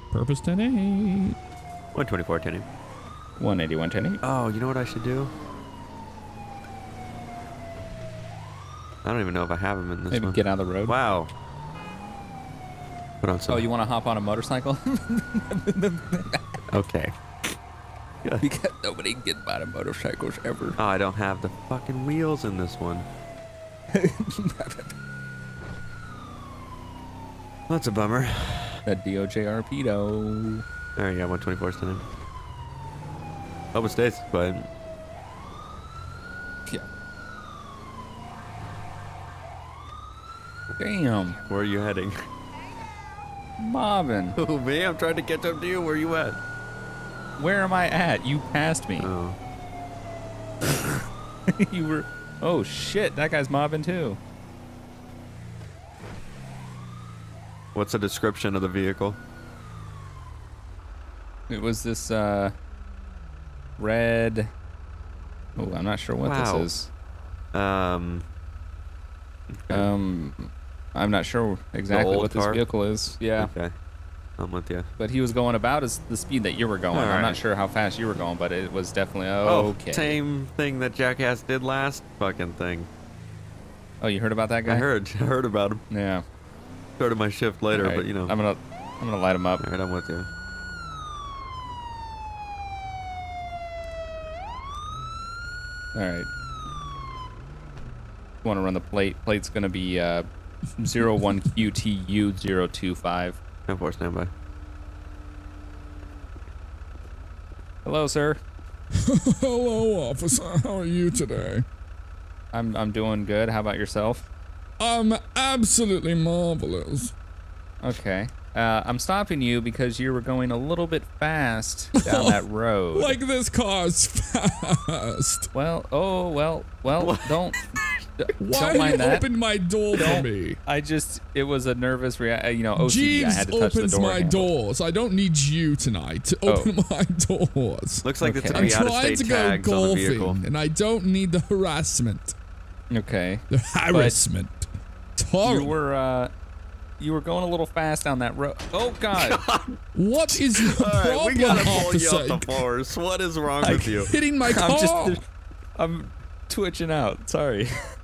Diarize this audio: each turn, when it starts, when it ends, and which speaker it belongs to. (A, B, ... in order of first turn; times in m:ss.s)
0:00.1-0:01.4 A
0:01.9-0:02.6 B
0:03.4-0:04.2 C
0:04.2-0:05.3 B
0:09.0-0:11.3 B
0:10.1-0:10.9 C
0:13.2-0:13.7 B
0:13.5-0:16.5 C
0:16.7-0:17.1 B
0:18.4-0:20.8 C
0:20.8-0:23.0 B
0:23.9-0:24.9 C
0:27.7-0:28.8 B
0:28.8-0:30.6 C
0:31.0-0:32.0 B
0:33.7-0:34.7 B
0:40.8-0:41.4 C
0:41.5-0:42.1 B
0:43.6-0:44.4 C
0:44.4-0:46.4 B
0:47.4-0:49.1 C
0:49.0-0:49.4 B
0:51.6-0:54.2 C
0:57.7-0:59.2 B
1:01.5-1:02.5 C
1:03.8-1:04.5 C
1:05.6-1:06.9 C
1:06.2-1:06.7 B
1:07.5-1:08.2 B
1:09.6-1:09.9 B
1:09.7-1:13.5 C
1:11.9-1:12.6 B
1:13.4-1:13.7 B
1:14.4-1:14.8 B
1:15.0-1:20.2 C
1:16.9-1:17.4 B
1:19.4-1:22.9 B
1:24.0-1:24.9 C
1:24.7-1:25.8 B
1:25.9-1:26.2 C
1:27.0-1:28.3 B
1:27.7-1:29.6 C
1:29.6-1:30.3 B
1:35.9-1:36.3 C
1:38.4-1:43.4 C
1:43.7-1:44.3 B
1:47.8-1:48.4 C
1:49.0-1:51.6 A
1:52.5-1:54.3 C
1:54.8-1:57.1 A
1:57.8-2:03.2 C
2:02.0-2:02.4 A
2:02.9-2:05.5 A
2:05.5-2:07.6 C
2:07.0-2:07.4 B
2:08.2-2:09.2 C
2:08.4-2:10.6 A
2:10.0-2:14.5 C
2:12.8-2:22.4 A
2:16.4-2:16.7 C
2:18.0-2:20.4 B
2:18.2-2:18.8 C
2:22.9-2:24.2 C
2:23.5-2:24.6 A
2:25.2-2:25.8 A
2:25.4-2:26.3 C
2:27.0-2:29.4 C
2:29.2-2:29.8 B
2:29.9-2:32.6 A
2:30.3-2:34.1 B
2:33.6-2:35.2 A
2:34.4-2:35.2 C
2:35.8-2:37.9 C